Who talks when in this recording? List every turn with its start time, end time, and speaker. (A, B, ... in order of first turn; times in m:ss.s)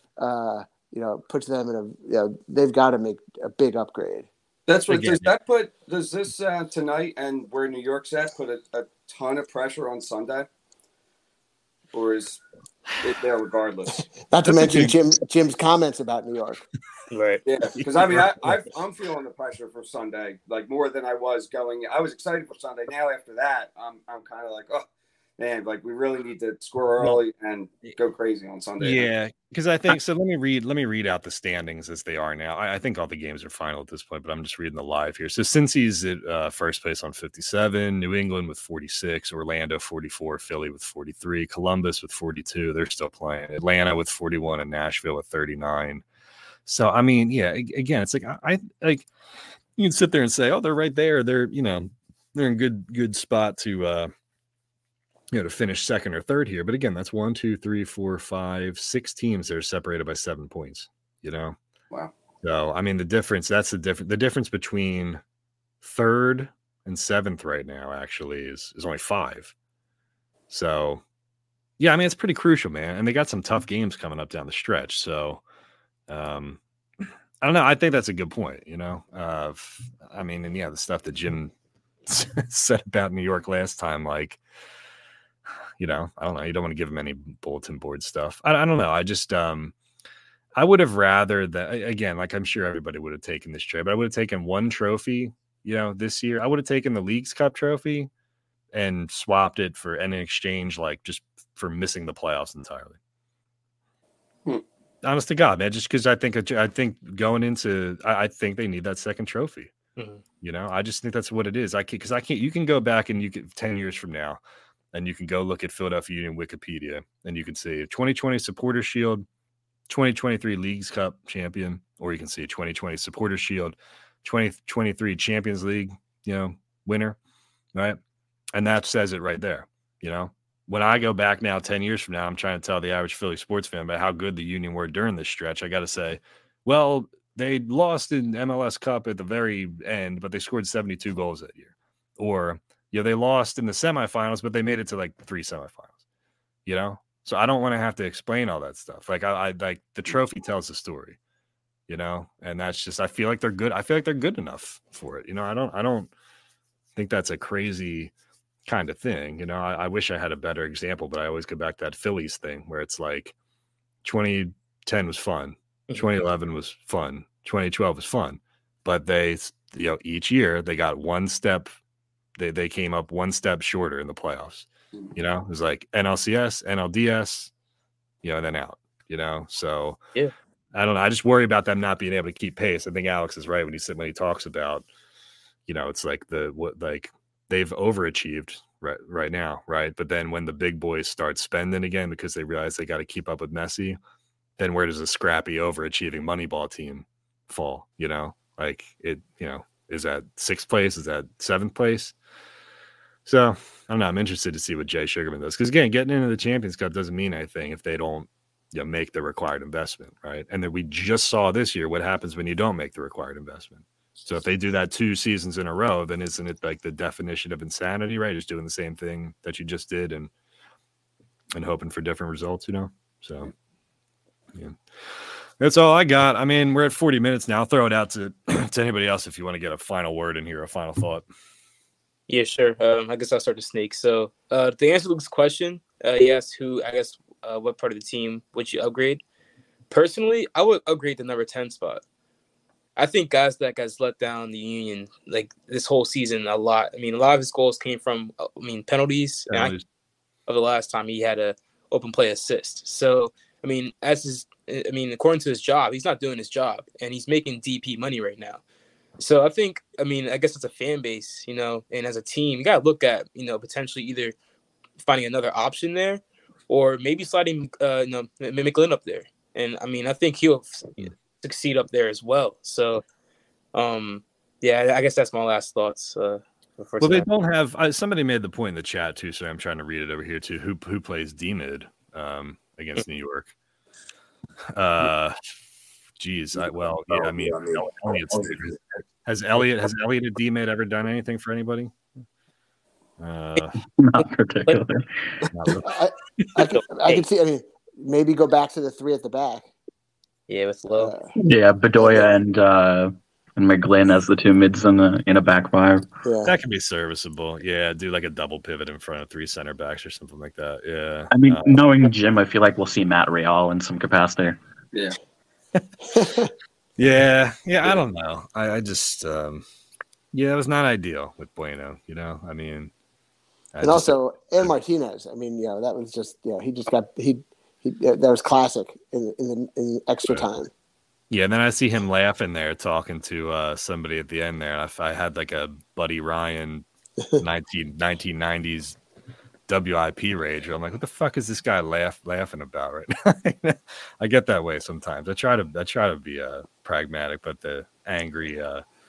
0:00.2-0:04.3 A
0:04.7-0:10.5 B
0:04.9-0:05.3 C
0:11.9-0:12.4 B
0:13.0-0:14.1 B
0:14.3-0:16.6 A
0:14.4-0:14.9 C
0:17.1-0:17.4 D
0:17.4-0:24.8 B
0:17.9-0:18.5 C
0:25.4-0:29.1 B
0:28.8-0:46.0 C
0:46.6-0:49.1 C
0:49.8-0:54.1 C
0:55.3-1:01.6 C
1:02.4-1:05.2 C
1:05.8-1:09.5 C
1:10.5-1:11.0 C
1:11.8-1:15.4 C
1:16.1-1:16.6 C
1:17.4-1:21.5 C
1:22.1-1:24.4 C
1:25.8-1:29.7 C
1:30.6-1:38.1 C
1:38.7-1:43.0 C
1:45.0-1:49.7 C
1:50.4-1:54.4 C
1:54.9-1:59.2 C
1:59.9-2:07.2 C
2:07.7-2:08.0 C
2:08.5-2:25.9 C
2:26.6-2:31.2 C
2:31.9-2:36.1 C
2:37.0-2:38.1 C
2:38.6-2:43.3 C
2:44.0-2:51.7 C
2:52.4-2:57.5 C
2:58.2-3:00.0 C
3:00.7-3:04.9 C
3:05.7-3:14.0 C
3:14.6-3:22.1 C
3:23.2-3:40.3 C
3:41.5-3:43.5 C
3:44.5-3:44.8 C
3:45.6-3:51.2 C
3:52.3-3:59.2 D
3:59.9-4:02.0 D
4:03.0-4:09.8 D
4:09.5-4:09.8 C
4:10.5-4:18.6 D
4:19.2-4:24.3 D
4:25.0-4:33.0 D
4:33.7-4:37.3 D
4:37.0-4:43.5 C
4:44.7-4:45.4 C
4:46.2-4:51.9 C
4:46.6-4:48.7 B
4:53.2-4:53.8 C
4:53.9-4:55.5 E
4:55.5-4:56.5 C
4:55.8-4:59.7 A
4:56.7-4:57.2 D
5:00.5-5:01.2 D
5:00.9-5:01.3 A
5:01.4-5:06.0 E
5:02.0-5:02.3 A
5:06.2-5:06.5 A
5:06.4-5:11.7 C
5:11.3-5:14.6 E
5:16.1-5:16.5 A
5:17.0-5:19.6 C
5:20.3-5:22.9 C
5:23.7-5:24.7 C
5:23.8-5:30.7 A
5:31.3-5:36.8 C
5:37.4-5:39.0 C
5:39.7-5:48.8 C